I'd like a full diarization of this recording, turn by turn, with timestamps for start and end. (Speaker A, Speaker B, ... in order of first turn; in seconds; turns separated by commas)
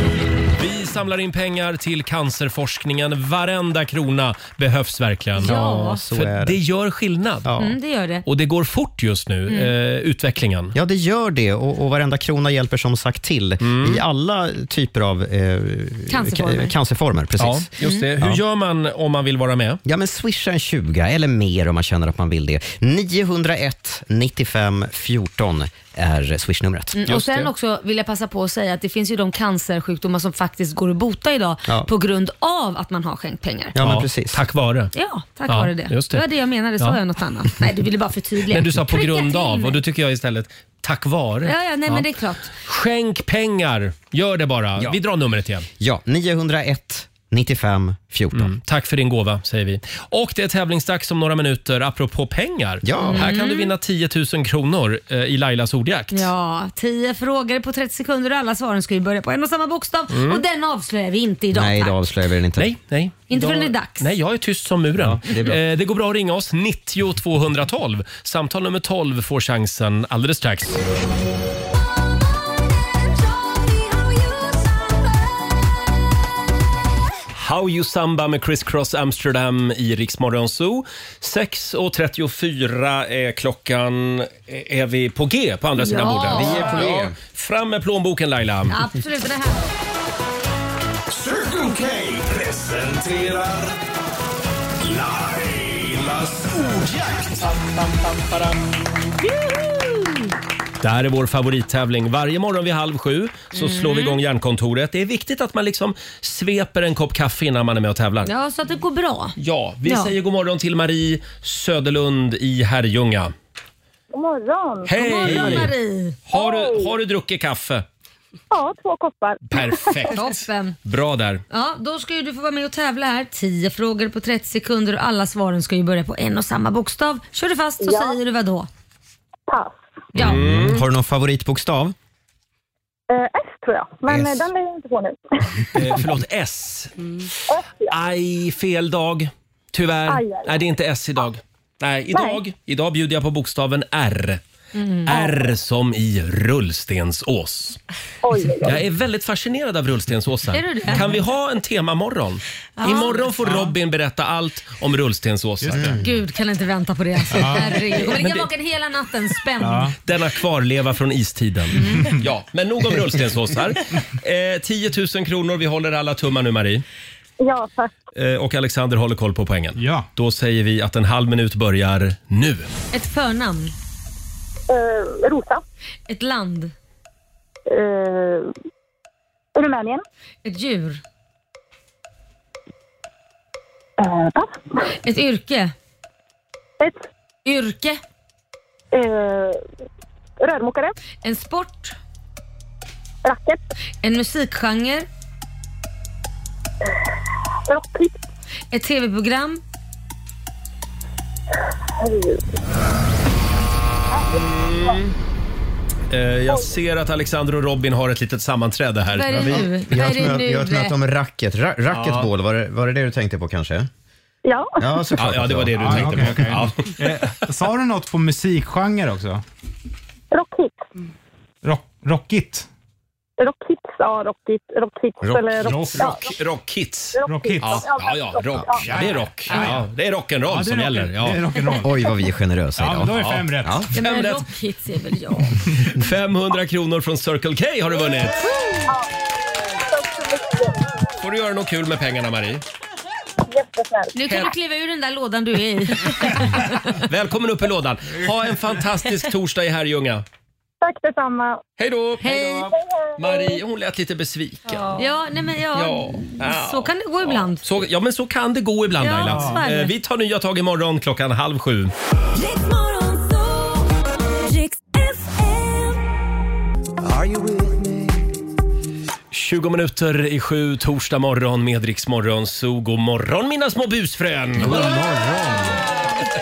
Speaker A: 0.6-5.5, Speaker B: 5.4-6.0, Speaker C: 5.4-6.6, Speaker A: 6.1-7.5, Speaker C: 7.4-7.7, Speaker B: 7.6-8.2, Speaker A: 8.2-10.7, Speaker C: 10.7-18.4, Speaker A: 13.6-14.0, Speaker B: 16.1-16.7, Speaker A: 17.4-19.8, Speaker C: 19.8-27.2, Speaker B: 26.9-33.7, Speaker A: 27.1-27.5, Speaker C: 33.7-34.4, Speaker A: 33.8-34.9, Speaker B: 34.9-39.8, Speaker A: 35.5-36.2, Speaker A: 38.5-45.6, Speaker B: 41.4-42.5, Speaker C: 45.8-48.5, Speaker A: 48.3-56.3, Speaker C: 52.8-53.3, Speaker B: 53.0-53.7, Speaker B: 56.1-62.0, Speaker A: 60.1-60.4, Speaker C: 61.5-62.7, Speaker A: 62.6-70.8, Speaker B: 63.3-64.1, Speaker C: 65.0-65.6, Speaker A: 77.3-88.8, Speaker B: 85.8-86.9, Speaker C: 86.3-87.1, Speaker B: 88.7-89.7, Speaker D: 91.1-93.8, Speaker D: 94.8-98.4, Speaker A: 100.8-108.3, Speaker B: 103.5-104.2, Speaker B: 108.2-110.1, Speaker A: 109.4-113.3, Speaker E: 114.1-114.9, Speaker A: 114.8-115.7, Speaker B: 114.9-116.2, Speaker A: 116.3-117.8, Speaker E: 116.3-116.9, Speaker E: 118.5-120.1, Speaker A: 119.5-121.4, Speaker B: 120.1-120.8, Speaker B: 121.5-128.7, Speaker E: 127.8-128.2, Speaker E: 129.5-129.8, Speaker A: 130.2-130.8, Speaker C: 130.2-131.9, Speaker E: 133.1-135.4, Speaker A: 135.7-136.9, Speaker E: 137.5-138.0, Speaker A: 137.9-144.4, Speaker E: 140.1-140.6, Speaker E: 142.1-142.4, Speaker B: 144.7-145.1, Speaker A: 145.1-147.8, Speaker E: 148.2-148.8, Speaker A: 148.6-156.0, Speaker B: 150.5-151.0, Speaker B: 152.8-153.3, Speaker F: 153.4-153.7, Speaker F: 155.6-156.0, Speaker B: 156.0-159.9, Speaker F: 157.3-158.0, Speaker A: 158.1-158.4, Speaker F: 159.6-159.9, Speaker A: 160.0-166.8, Speaker E: 167.4-167.9, Speaker A: 168.1-172.7, Speaker F: 169.8-170.1, Speaker B: 172.9-173.7, Speaker E: 174.7-175.6, Speaker B: 176.1-176.7, Speaker E: 177.7-178.5, Speaker E: 179.6-180.0, Speaker B: 180.4-181.0, Speaker E: 184.0-184.8, Speaker B: 185.0-185.7, Speaker E: 186.8-187.0, Speaker B: 187.4-188.0, Speaker E: 188.9-189.6, Speaker E: 190.4-190.9, Speaker B: 191.2-191.9, Speaker E: 193.2-193.6, Speaker B: 194.0-195.1, Speaker E: 197.7-198.2, Speaker B: 198.7-199.6, Speaker E: 202.0-202.4, Speaker E: 204.1-205.0, Speaker A: 204.3-205.1, Speaker A: 206.1-209.7, Speaker E: 206.5-206.8, Speaker B: 209.1-210.9, Speaker C: 209.9-213.9, Speaker A: 211.9-212.3, Speaker E: 214.4-214.9, Speaker C: 214.8-216.4, Speaker A: 215.2-216.9, Speaker F: 215.8-219.4, Speaker E: 220.3-220.8, Speaker F: 221.6-222.7, Speaker E: 223.4-226.3, Speaker C: 225.2-225.8, Speaker F: 225.6-226.2, Speaker A: 226.4-231.4, Speaker E: 227.2-229.0, Speaker F: 227.2-227.9, Speaker F: 228.8-229.8, Speaker F: 230.5-232.0, Speaker C: 231.8-233.9, Speaker F: 232.8-233.8, Speaker A: 233.2-234.5, Speaker B: 233.9-235.5, Speaker A: 235.8-238.5, Speaker E: 238.8-239.1, Speaker E: 239.8-241.0, Speaker A: 241.2-242.6, Speaker E: 243.5-244.1, Speaker B: 244.1-246.7, Speaker A: 247.1-250.2, Speaker E: 250.8-251.6, Speaker A: 251.8-254.9, Speaker B: 252.2-252.7, Speaker E: 252.7-253.6, Speaker B: 255.0-257.6, Speaker A: 255.7-261.9, Speaker B: 259.0-259.9, Speaker F: 259.2-259.6, Speaker D: 267.1-268.1, Speaker A: 269.3-275.0